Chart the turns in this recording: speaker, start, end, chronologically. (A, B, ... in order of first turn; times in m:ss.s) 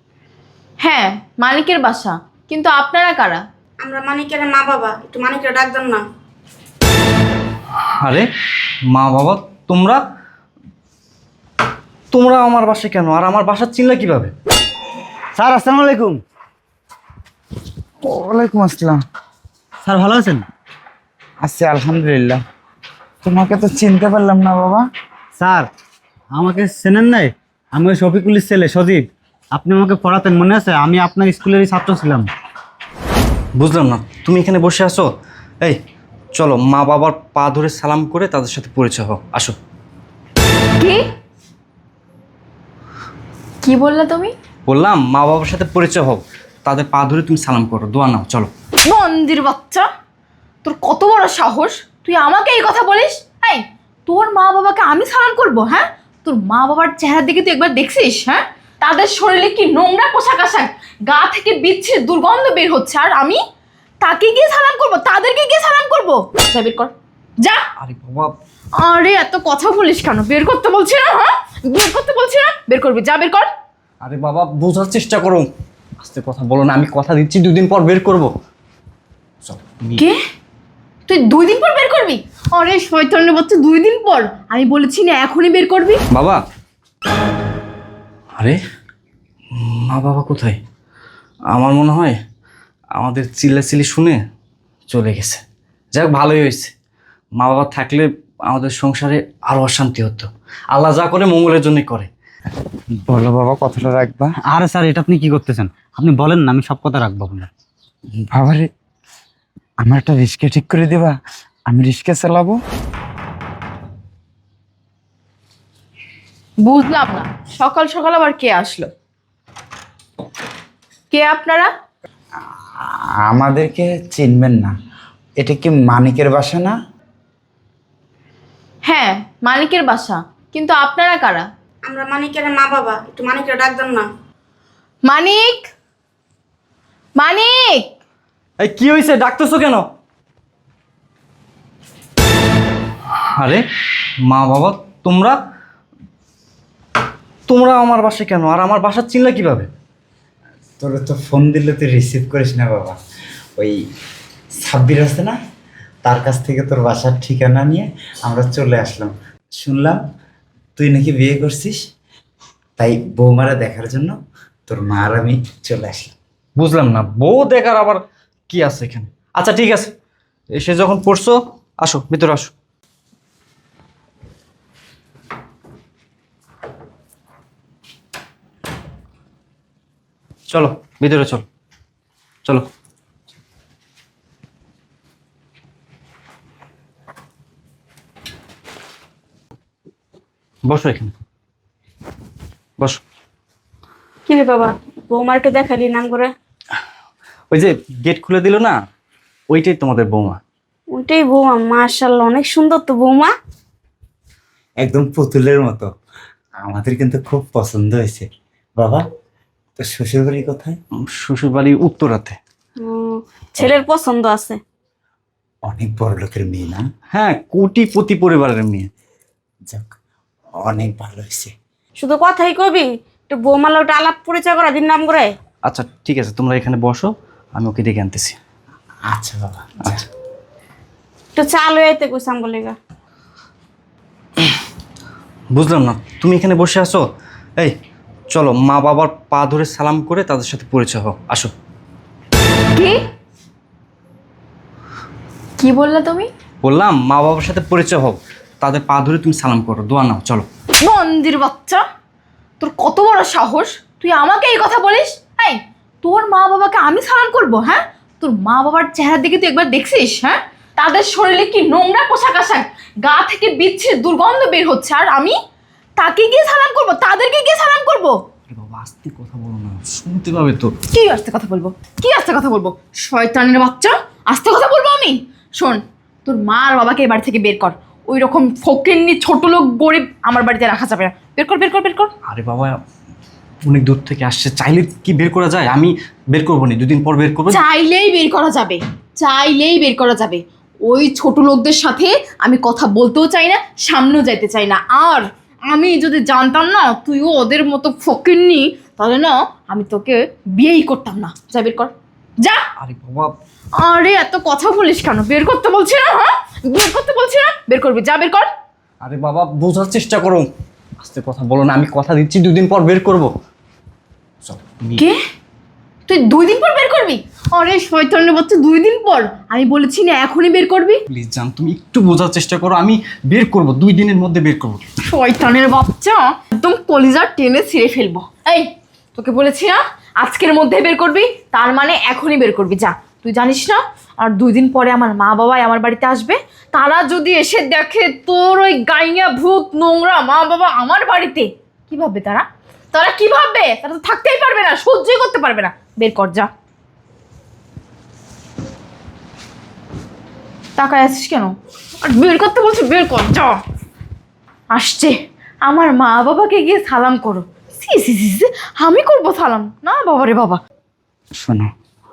0:00.8-0:03.4 A
0:03.8-0:06.0 B
0:08.0-0:08.2 C
0:08.9-0:10.0 C
0:12.1-0:14.3 C
0:15.3-0:16.2 D
0:18.0-0:19.0 E
0:19.8-0:20.4 D
0:21.4-0:22.4 E
0:23.2-0:24.8 E
0:25.4-0:25.7 D
0:26.3-0:32.3 D
0:33.6-0:35.1 C
0:36.3-0:39.6 C
0:43.6-0:44.3 A
0:44.7-0:48.5 C
0:48.8-0:49.8 A
0:50.6-1:03.4 A
1:04.0-1:07.6 A
1:07.8-1:08.3 C
1:08.8-1:13.5 A
1:14.0-1:18.3 C
1:19.4-1:20.0 C
1:21.1-1:26.0 A
1:26.1-1:26.4 C
1:29.5-1:30.6 C
1:31.5-1:32.2 C
1:33.0-1:34.2 C
1:34.9-1:35.4 C
1:35.9-1:36.7 C
1:37.4-1:42.1 C
1:43.0-1:44.4 E
1:44.5-1:47.5 D
1:48.3-1:48.7 E
1:49.8-1:51.1 E
1:51.7-1:52.6 E
1:56.6-1:58.9 A
2:01.1-2:01.7 A
2:02.8-2:04.7 E
2:05.4-2:06.7 E
2:08.9-2:11.5 A
2:11.8-2:14.1 B
2:15.0-2:15.7 A
2:17.2-2:17.8 A
2:18.6-2:19.8 C
2:24.3-2:25.4 C
2:27.5-2:29.7 C
2:30.8-2:33.0 E
2:34.6-2:35.4 E
2:36.0-2:40.0 E
2:40.8-2:41.8 E
2:42.8-2:44.2 E
2:44.7-2:46.1 E
2:46.6-2:49.9 C
2:50.5-2:52.5 C
3:00.5-3:01.4 C
3:10.6-3:11.1 C
3:14.3-3:16.3 B
3:17.5-3:18.7 C
3:19.5-3:20.4 C
3:20.9-3:23.3 B
3:24.8-3:25.9 E
3:26.6-3:28.3 E
3:28.8-3:29.0 E
3:29.8-3:30.8 E
3:31.0-3:32.4 C
3:32.8-3:34.6 B
3:35.6-3:36.8 E
3:37.1-3:38.9 C
3:39.7-3:40.0 E
3:40.6-3:41.5 E
3:42.0-3:45.4 B
3:45.6-3:48.4 C
3:49.1-3:50.0 E
3:51.3-3:52.8 B
3:55.5-3:57.0 C
3:58.3-4:01.5 C
4:05.6-4:06.3 A
4:06.6-4:10.5 C
4:10.8-4:11.8 A
4:12.6-4:25.4 A
4:26.0-4:28.2 A
4:28.5-4:30.7 C
4:30.9-4:42.1 A
4:42.3-4:42.8 C
4:43.6-4:47.6 C
4:47.5-5:02.6 A
5:02.8-5:03.3 C
5:03.8-5:08.5 A
5:09.0-5:13.3 C
5:14.4-5:15.0 C
5:16.1-5:21.0 A
5:21.1-5:24.8 C
5:25.0-5:46.5 A
5:50.8-5:53.6 A
5:54.7-5:55.1 A
5:55.6-6:00.6 A
6:01.4-6:01.7 E